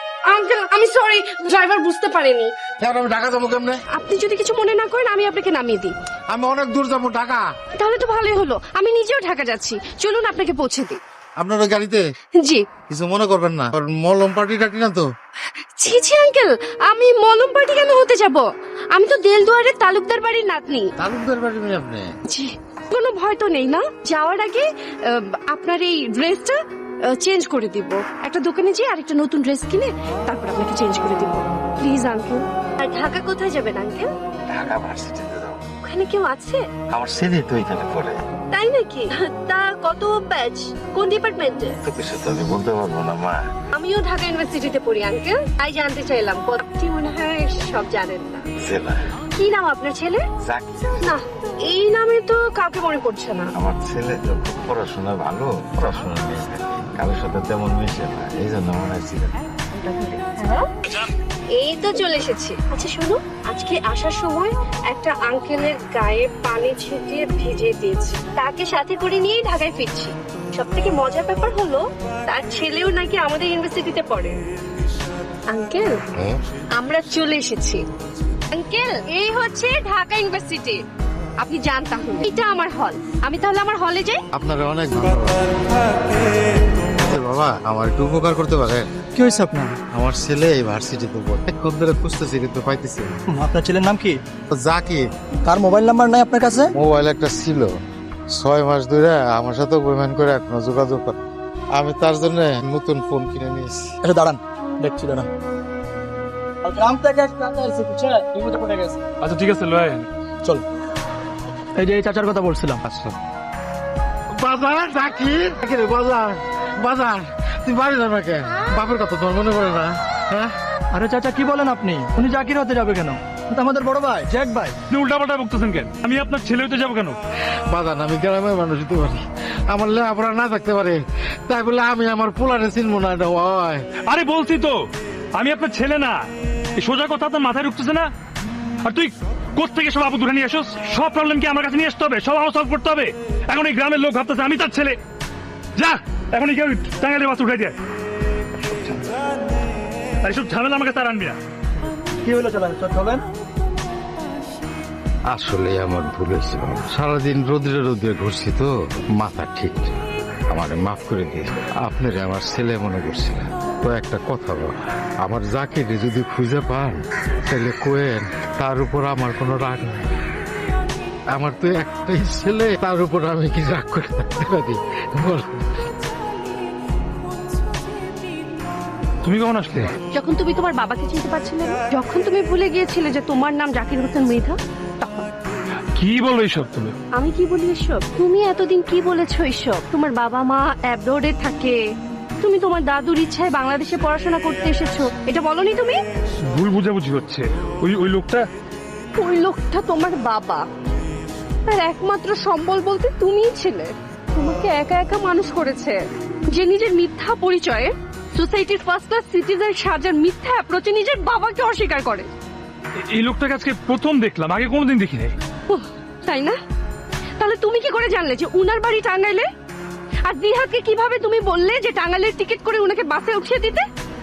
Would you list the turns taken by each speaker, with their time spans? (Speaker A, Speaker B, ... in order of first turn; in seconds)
Speaker A: 0.3-2.5, 3.9-5.9, 7.7-11.0, 12.4-12.7, 15.8-20.9, 22.2-34.1, 35.8-36.6, 38.5-41.8, 43.7-48.4, 49.3-50.2, 51.0-53.5, 59.7-74.3, 75.5-76.0, 76.8-77.8, 78.5-80.8, 81.4-84.2, 180.1-185.3, 187.1-191.8, 192.4-196.0, 199.2-200.6, 201.7-212.3, 215.7-216.6, 217.4-219.5, 220.2-223.8
Speaker B: 2.8-3.8, 6.3-7.4, 11.4-12.0, 12.9-15.0, 21.0-22.1, 84.3-85.4, 86.9-88.9, 89.9-93.2, 94.5-95.0, 96.7-97.7, 98.3-101.2, 101.7-103.9, 112.8-113.2, 114.3-120.5, 127.7-133.8, 155.3-160.0, 160.5-170.1, 171.3-175.9
Speaker C: 34.5-35.6, 36.9-38.1, 41.8-43.4, 48.7-48.9, 50.5-50.9, 53.6-59.3
Speaker D: 89.1-89.8, 93.3-94.2, 95.4-96.7, 104.0-105.3, 106.6-109.0, 111.8-112.8, 120.9-124.8, 152.2-153.2
Speaker E: 109.2-110.1, 124.9-127.2, 134.1-134.8, 135.3-136.2, 136.8-138.1, 138.8-145.0, 145.8-147.8, 148.7-149.0, 150.2-151.4, 179.2-179.9, 186.0-186.9, 196.5-198.5, 213.1-215.3